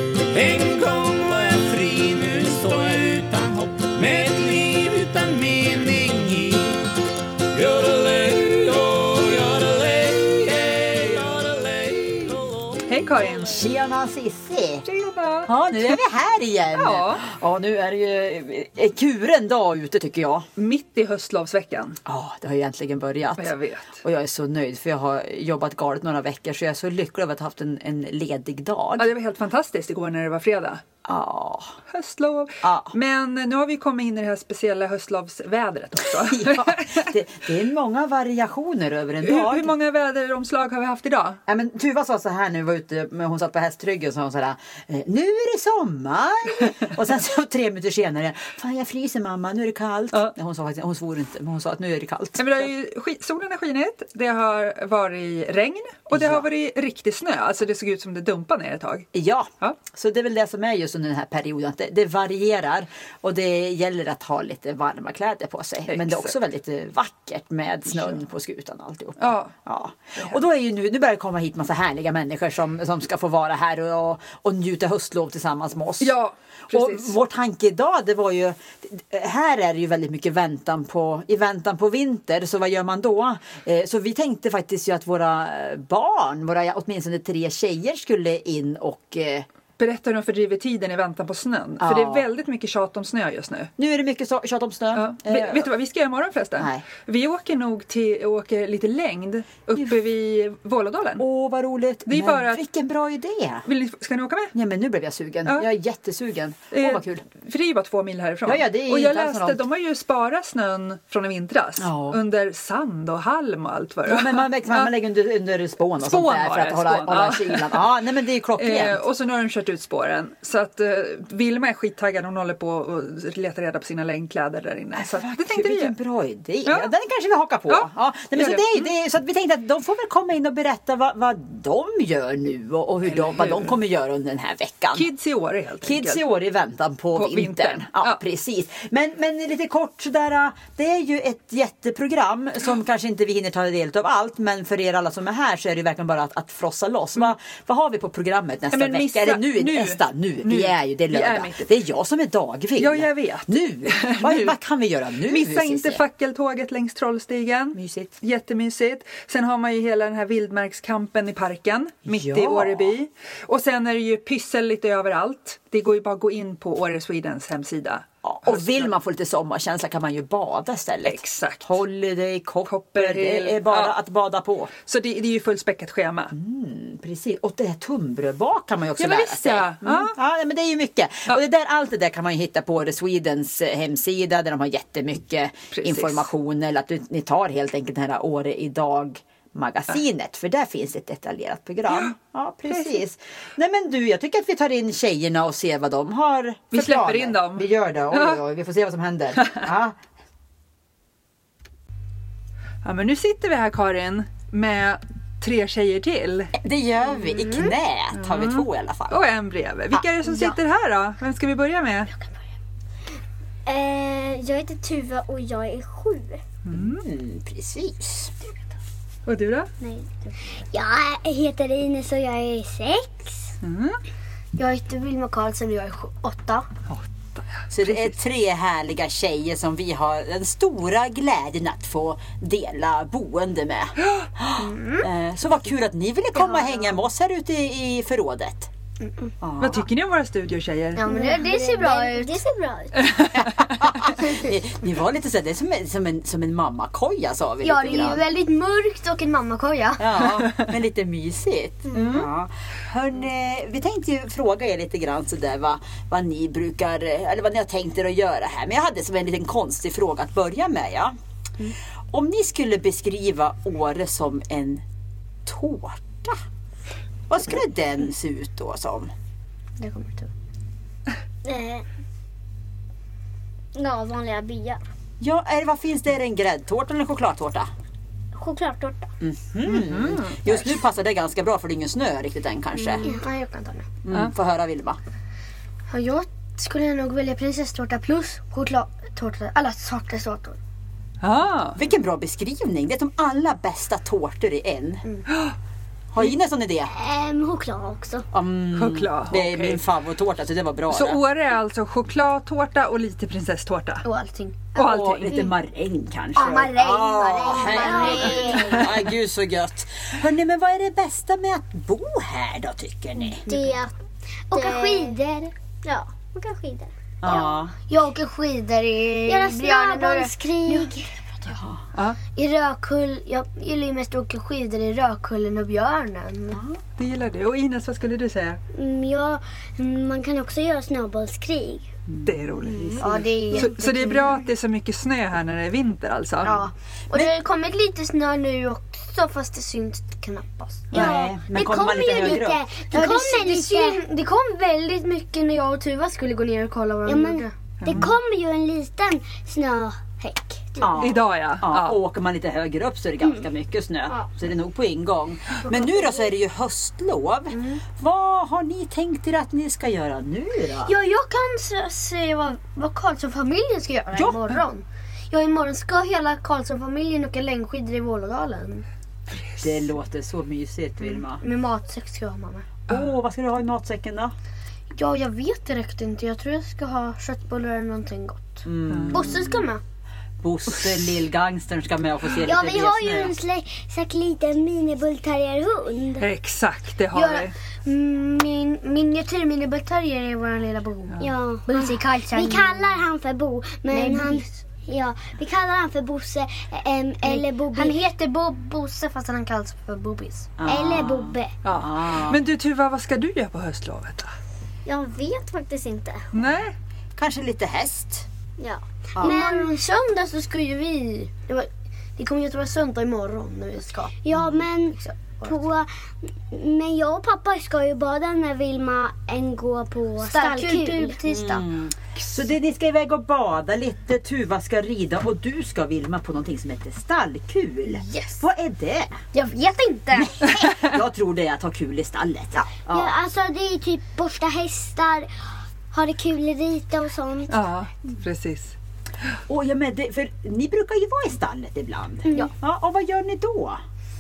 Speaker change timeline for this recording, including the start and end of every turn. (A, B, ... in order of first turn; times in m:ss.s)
0:00.3-0:06.8 A
0:07.5-0:12.9 A
0:12.9-0:13.6 B
0:13.4-0:14.8 C
0:14.8-0:15.9 B
0:15.5-0:20.5 C
0:16.7-0:17.2 B
0:20.6-0:22.0 B
0:22.1-0:29.1 C
0:23.4-0:24.0 B
0:29.0-0:30.8 B
0:31.0-0:31.8 C
0:31.9-0:37.0 B
0:32.6-0:32.9 C
0:36.2-0:39.7 C
0:39.2-0:41.4 B
0:41.5-0:52.7 C
0:52.4-0:59.1 B
0:56.1-0:56.5 C
0:59.1-1:16.2 C
1:05.9-1:06.3 B
1:09.2-1:09.5 B
1:16.0-1:17.1 B
1:16.7-1:29.5 C
1:29.8-1:33.7 B
1:31.8-1:32.3 C
1:33.8-1:35.7 C
1:34.9-1:41.2 B
1:36.6-1:36.9 C
1:41.2-1:43.7 C
1:42.1-1:42.6 B
1:43.7-1:44.5 B
1:44.5-1:47.2 C
1:46.7-1:54.9 B
1:48.5-1:49.6 C
1:51.8-1:52.2 C
1:54.1-1:59.0 C
1:56.0-1:57.8 B
1:58.6-2:06.0 B
2:05.0-2:15.1 C
2:06.6-2:06.9 B
2:07.7-2:08.9 B
2:13.0-2:13.8 B
2:14.9-2:16.2 B
2:15.8-2:36.0 C
2:17.1-2:18.2 B
2:28.7-2:31.7 B
2:32.8-2:34.6 B
2:35.2-2:48.9 B
2:37.7-2:38.1 C
2:42.1-2:42.9 C
2:48.2-2:54.7 C
2:51.0-2:51.8 B
2:52.7-2:54.0 B
2:54.8-2:56.3 B
2:56.3-3:20.0 C
2:59.0-3:00.1 B
3:05.7-3:06.3 B
3:12.7-3:13.0 B
3:16.7-3:18.4 B
3:19.4-3:19.7 B
3:22.8-3:26.5 B
3:26.6-3:29.2 C
3:27.1-3:27.7 D
3:28.1-3:32.1 B
3:32.1-3:32.4 D
3:33.6-3:36.4 E
3:36.7-3:37.0 B
3:36.7-3:38.4 C
3:39.3-3:39.7 B
3:39.8-3:43.6 E
3:43.6-3:44.0 B
3:44.6-3:46.7 D
3:46.9-3:48.1 B
3:47.7-3:58.7 C
3:54.6-3:55.1 D
3:59.0-3:59.3 D
3:59.4-3:59.8 C
3:59.6-4:01.1 B
4:01.0-4:02.4 D
4:01.1-4:03.1 E
4:03.1-4:03.6 B
4:03.4-4:08.2 C
4:07.6-4:10.1 D
4:10.0-4:21.2 C
4:11.9-4:12.3 B
4:22.1-4:24.8 C
4:25.5-4:26.4 C
4:27.3-4:29.1 C
4:29.8-4:30.3 D
4:31.4-4:31.8 E
4:33.8-4:34.8 E
4:35.2-4:37.7 C
4:38.3-4:39.1 E
4:39.2-4:43.1 C
4:39.6-4:40.4 B
4:42.8-4:43.2 E
4:43.0-4:43.9 D
4:44.0-4:45.0 C
4:45.9-4:50.6 D
4:51.2-4:51.8 B
4:51.8-4:55.0 C
4:55.3-4:55.6 B
4:56.1-4:56.9 C
4:56.9-4:58.3 E
4:58.3-5:01.2 C
4:58.7-4:59.8 B
5:00.9-5:04.1 B
5:04.0-5:04.7 D
5:04.7-5:05.4 B
5:04.8-5:05.6 E
5:04.8-5:13.4 C
5:06.4-5:08.8 D
5:06.4-5:08.9 E
5:13.3-5:13.8 D
5:13.5-5:13.9 E
5:14.5-5:15.2 D
5:14.5-5:17.5 E
5:17.2-5:17.7 C
5:17.3-5:21.6 D
5:19.3-5:21.2 E
5:22.4-5:26.6 D
5:26.5-5:26.8 C
5:27.0-5:28.6 B
5:28.7-5:31.9 E
5:32.1-5:32.4 C
5:32.3-5:36.6 B
5:32.6-5:33.8 E
5:33.0-5:34.4 D
5:36.4-5:41.2 D
5:36.5-5:37.3 C
5:40.9-5:42.6 C
5:40.9-5:44.0 E
5:42.2-5:47.5 D
5:47.1-5:51.1 E
5:47.8-5:48.1 B
5:50.8-6:00.9 C
5:51.0-5:52.0 B
5:57.5-5:57.8 D
6:00.9-6:08.8 D
6:09.6-6:11.4 C
6:11.1-6:12.7 D
6:12.9-6:14.3 C
6:15.0-6:19.8 D
6:18.6-6:19.7 C
6:18.9-6:19.3 B
6:20.4-6:23.4 C
6:22.4-6:26.3 E
6:26.2-6:27.5 B
6:27.1-6:33.0 D
6:31.2-6:38.0 E
6:33.9-6:34.6 D
6:37.2-6:40.6 D
6:40.6-6:42.4 C
6:40.6-6:41.5 E
6:41.6-6:44.3 B
6:44.8-6:46.3 E
6:46.3-6:46.8 B
6:47.2-6:48.3 C
6:48.6-6:49.7 E
6:49.2-6:49.4 C
6:49.2-6:54.1 D
6:54.2-7:01.2 E
6:54.3-6:54.7 C
6:54.9-6:55.7 D
7:00.2-7:01.6 D
7:01.3-7:09.2 C
7:07.9-7:08.4 D
7:09.3-7:10.4 D
7:10.1-7:13.2 C
7:12.9-7:15.3 E
7:15.9-7:17.6 E
7:17.5-7:18.8 B
7:19.5-7:23.8 C